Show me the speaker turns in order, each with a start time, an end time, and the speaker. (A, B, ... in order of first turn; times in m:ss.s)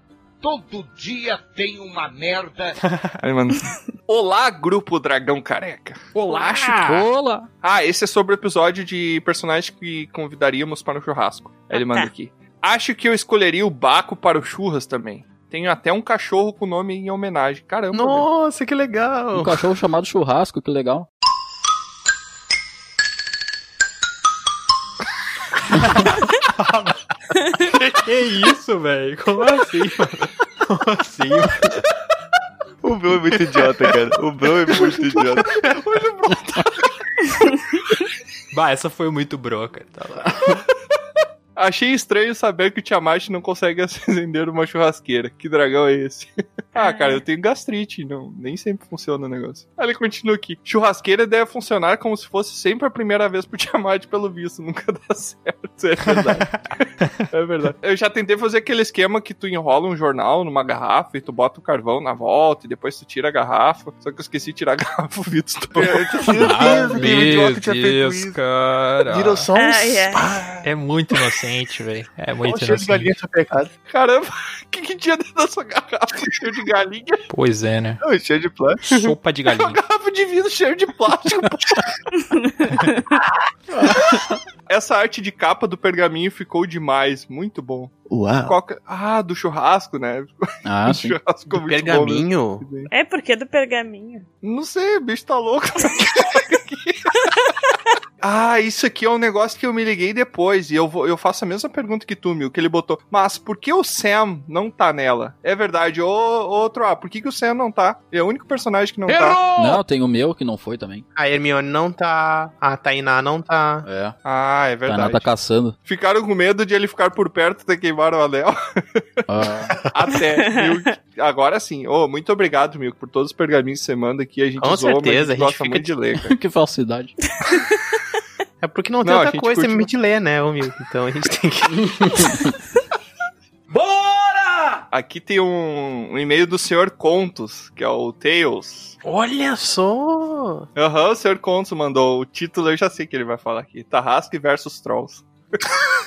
0:00.4-0:02.8 A
0:03.2-0:06.8 B
0:06.2-0:07.1 C
0:06.8-0:07.5 D
0:07.6-0:18.3 B
0:11.7-0:12.1 E
0:17.9-0:19.6 F
0:19.3-0:21.1 D
0:25.8-0:27.0 C
0:27.9-0:31.8 C
0:32.8-0:35.5 G
0:35.6-0:36.8 B
0:38.5-0:40.6 C
0:41.6-1:06.4 B
0:46.8-0:47.2 E
0:56.1-0:57.1 C
1:05.7-1:08.4 G
1:06.4-1:09.5 C
1:09.1-1:10.7 G
1:09.6-1:10.3 E
1:10.6-1:13.1 C
1:12.4-1:13.7 G
1:13.9-1:17.2 B
1:17.3-1:18.0 C
1:18.0-1:19.1 G
1:18.9-1:19.8 C
1:19.5-1:21.9 B
1:22.3-1:23.0 E
1:24.7-1:32.9 B
1:28.1-1:28.6 G
1:30.6-1:31.2 D
1:31.5-1:32.7 F
1:32.9-1:34.3 E
1:34.4-1:37.5 B
1:38.2-1:49.4 B
1:49.5-1:51.0 D
1:51.2-1:53.9 F
1:53.8-1:54.2 D
1:54.2-1:55.3 B
1:54.9-1:55.8 D
1:55.8-1:59.0 B
1:59.3-1:59.8 D
1:59.8-2:06.3 B
2:04.6-2:05.9 F
2:06.3-2:07.1 D
2:07.4-2:07.7 E
2:08.6-2:12.2 F
2:09.0-2:09.9 B
2:14.9-2:19.0 B
2:19.0-2:20.7 F
2:20.8-2:25.2 B